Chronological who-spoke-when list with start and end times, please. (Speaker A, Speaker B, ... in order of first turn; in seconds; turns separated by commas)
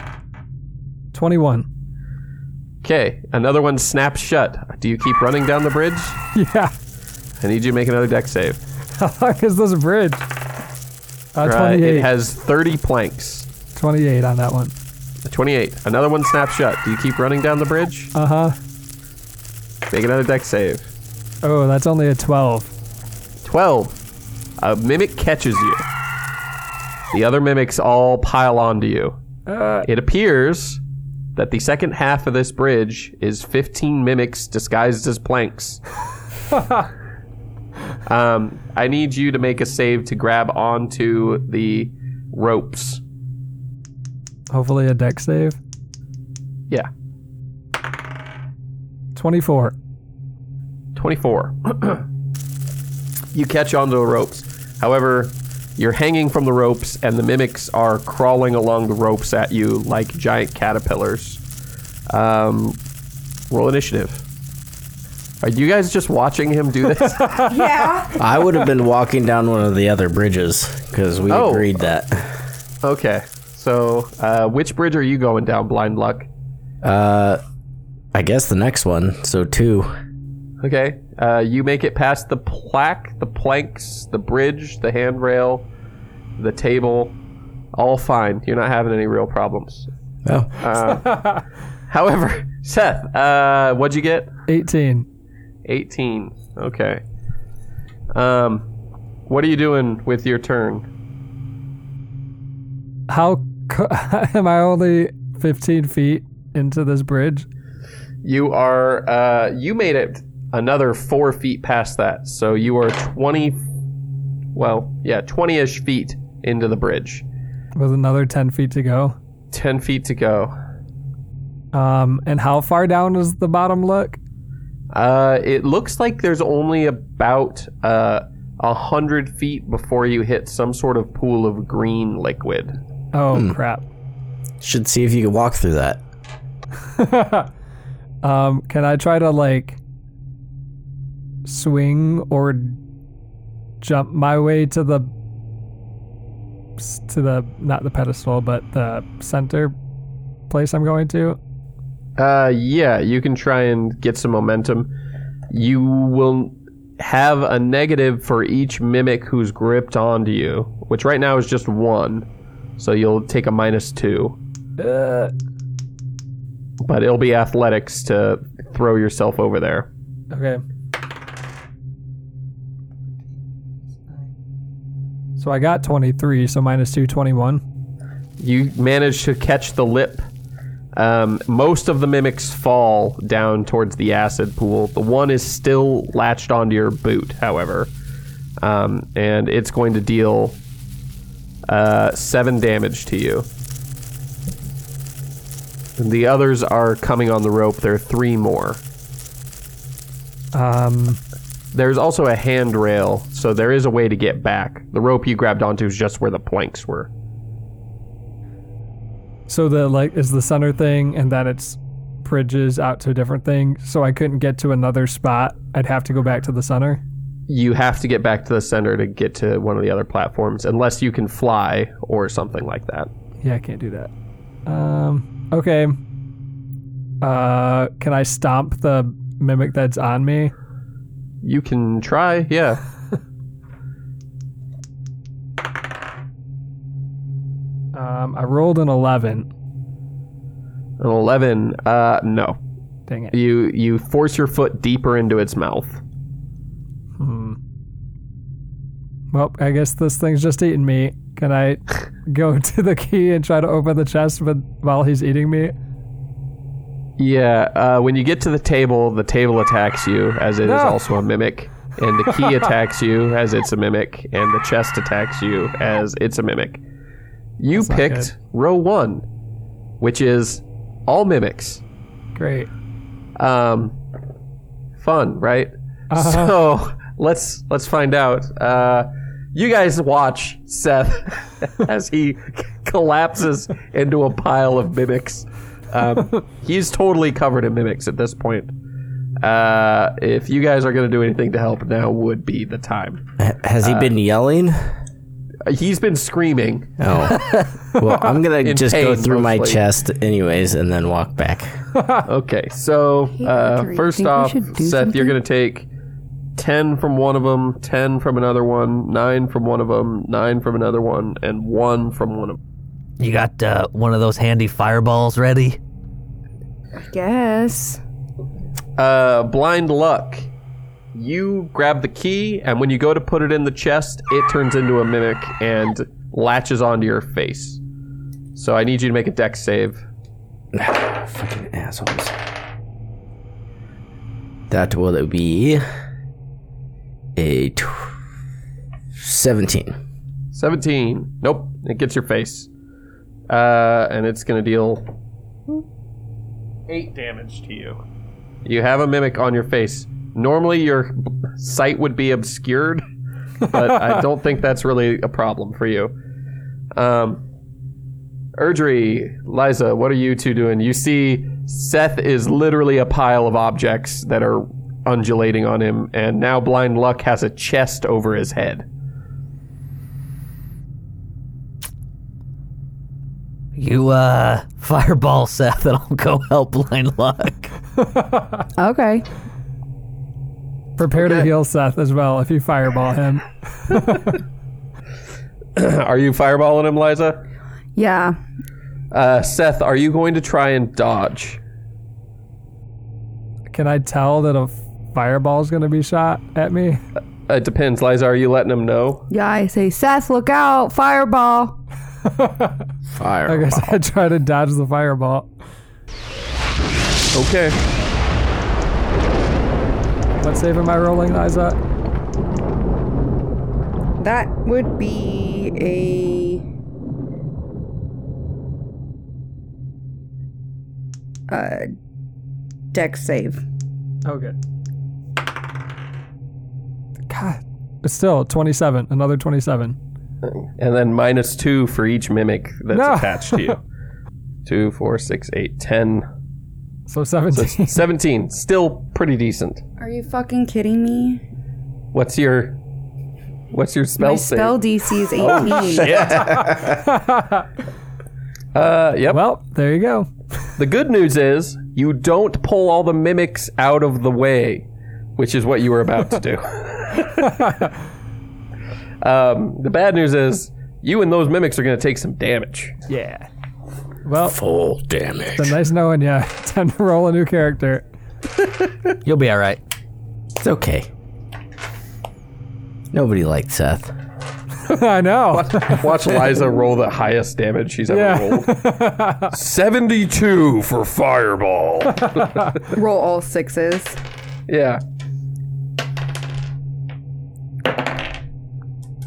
Speaker A: 1.1-1.7, Speaker B: 2.8-6.2, Speaker A: 6.3-6.7, Speaker B: 7.4-8.6, Speaker A: 9.0-10.3, Speaker A: 11.3-12.1, Speaker B: 11.4-13.5, Speaker A: 13.8-14.7, Speaker B: 15.2-18.1, Speaker A: 18.1-18.6, Speaker B: 19.9-20.9, Speaker A: 21.4-22.7, Speaker B: 23.4-24.0, Speaker B: 24.6-25.8, Speaker B: 27.1-29.2, Speaker A: 29.5-29.9, Speaker B: 29.9-30.8, Speaker B: 31.4-35.8, Speaker B: 38.1-43.0, Speaker A: 44.5-45.6, Speaker A: 49.1-49.8, Speaker B: 51.0-52.0, Speaker B: 53.3-61.4, Speaker B: 62.1-62.8, Speaker B: 63.5-64.2, Speaker B: 65.4-67.5, Speaker A: 67.2-67.5, Speaker C: 67.5-68.2, Speaker D: 68.2-72.4, Speaker B: 71.3-71.7, Speaker B: 72.8-76.3, Speaker D: 76.8-77.4, Speaker D: 78.1-79.9, Speaker B: 80.6-85.7, Speaker B: 86.4-87.2, Speaker B: 87.7-89.9, Speaker D: 90.3-90.5, Speaker B: 90.6-94.3, Speaker A: 94.5-95.1, Speaker B: 95.7-97.0, Speaker B: 98.1-98.7, Speaker B: 99.3-100.9, Speaker A: 103.1-107.5, Speaker B: 108.2-113.6, Speaker B: 114.5-117.2, Speaker A: 117.8-119.2, Speaker B: 119.5-120.5, Speaker A: 121.7-124.2, Speaker B: 124.9-132.8, Speaker A: 133.1-133.8, Speaker D: 134.6-136.0, Speaker A: 137.0-137.5, Speaker A: 138.2-139.8, Speaker A: 141.4-142.8, Speaker A: 143.8-145.1, Speaker A: 146.8-149.8, Speaker A: 150.5-151.4, Speaker B: 152.2-154.9, Speaker B: 155.5-162.3, Speaker B: 162.8-164.4, Speaker A: 164.8-165.3, Speaker B: 166.8-169.9, Speaker A: 170.3-170.6, Speaker A: 175.4-177.6, Speaker B: 178.4-180.2, Speaker B: 181.0-187.9, Speaker B: 188.6-190.6, Speaker B: 191.7-193.5, Speaker B: 196.0-198.8, Speaker A: 200.5-201.2, Speaker B: 201.7-207.1, Speaker A: 209.5-217.0, Speaker B: 217.5-223.1, Speaker A: 223.4-224.1, Speaker A: 224.7-226.0, Speaker A: 227.2-230.5, Speaker B: 231.4-232.8, Speaker A: 237.9-239.5, Speaker B: 241.0-242.6, Speaker A: 243.1-243.3, Speaker B: 243.3-246.0, Speaker A: 247.2-247.6, Speaker A: 249.3-255.8, Speaker B: 257.2-266.8, Speaker A: 260.6-261.0, Speaker B: 267.6-269.2, Speaker A: 267.8-268.3, Speaker B: 270.0-271.8, Speaker A: 272.4-272.7, Speaker B: 273.4-274.0, Speaker B: 275.0-288.7, Speaker A: 276.1-276.5, Speaker B: 289.4-293.2, Speaker D: 293.4-294.9, Speaker B: 293.8-294.1, Speaker B: 295.6-296.9, Speaker D: 297.0-301.8, Speaker B: 298.6-299.8, Speaker B: 302.2-305.9, Speaker C: 303.4-305.4, Speaker B: 306.6-312.6, Speaker E: 313.2-315.8, Speaker C: 317.0-318.0, Speaker B: 319.0-320.5, Speaker B: 321.1-327.8, Speaker B: 328.6-330.0, Speaker D: 330.7-332.4, Speaker D: 334.7-335.8, Speaker D: 337.4-338.1, Speaker D: 339.1-339.9, Speaker B: 340.5-342.7, Speaker B: 343.5-345.1, Speaker B: 346.9-348.0, Speaker B: 348.6-353.1, Speaker B: 353.7-356.1, Speaker B: 356.9-357.4, Speaker B: 358.6-368.9, Speaker E: 373.8-377.7, Speaker A: 378.1-378.4, Speaker C: 378.8-379.3, Speaker A: 381.0-384.4, Speaker B: 381.2-381.5, Speaker B: 385.8-387.4, Speaker C: 388.0-388.4, Speaker B: 389.1-391.6, Speaker A: 393.7-397.0, Speaker B: 397.5-399.3, Speaker C: 399.3-401.8, Speaker A: 402.3-402.8, Speaker D: 403.1-404.0, Speaker A: 403.5-405.5, Speaker B: 407.3-407.8, Speaker A: 410.4-411.8, Speaker C: 414.2-416.6, Speaker C: 421.5-421.9, Speaker C: 422.9-423.6, Speaker A: 424.2-424.6, Speaker A: 427.3-430.0, Speaker B: 430.4-433.8, Speaker A: 432.9-433.8, Speaker B: 434.7-436.3, Speaker A: 437.1-438.0, Speaker B: 437.6-439.8, Speaker C: 440.0-441.4, Speaker B: 442.1-442.8, Speaker B: 443.7-444.8, Speaker C: 444.2-446.3, Speaker B: 445.4-446.8, Speaker D: 446.1-446.9, Speaker A: 446.6-447.6, Speaker B: 448.7-449.4, Speaker A: 449.3-450.3, Speaker B: 450.8-457.6, Speaker B: 459.2-463.0, Speaker A: 463.1-463.5, Speaker A: 464.2-464.6, Speaker D: 464.5-465.8, Speaker A: 465.5-468.0, Speaker E: 469.2-469.8, Speaker D: 470.6-471.1, Speaker D: 473.1-474.1, Speaker A: 474.9-476.3, Speaker B: 475.5-478.8, Speaker A: 478.1-479.5, Speaker B: 479.5-482.6, Speaker A: 482.2-482.7, Speaker C: 482.8-484.2, Speaker B: 484.7-485.0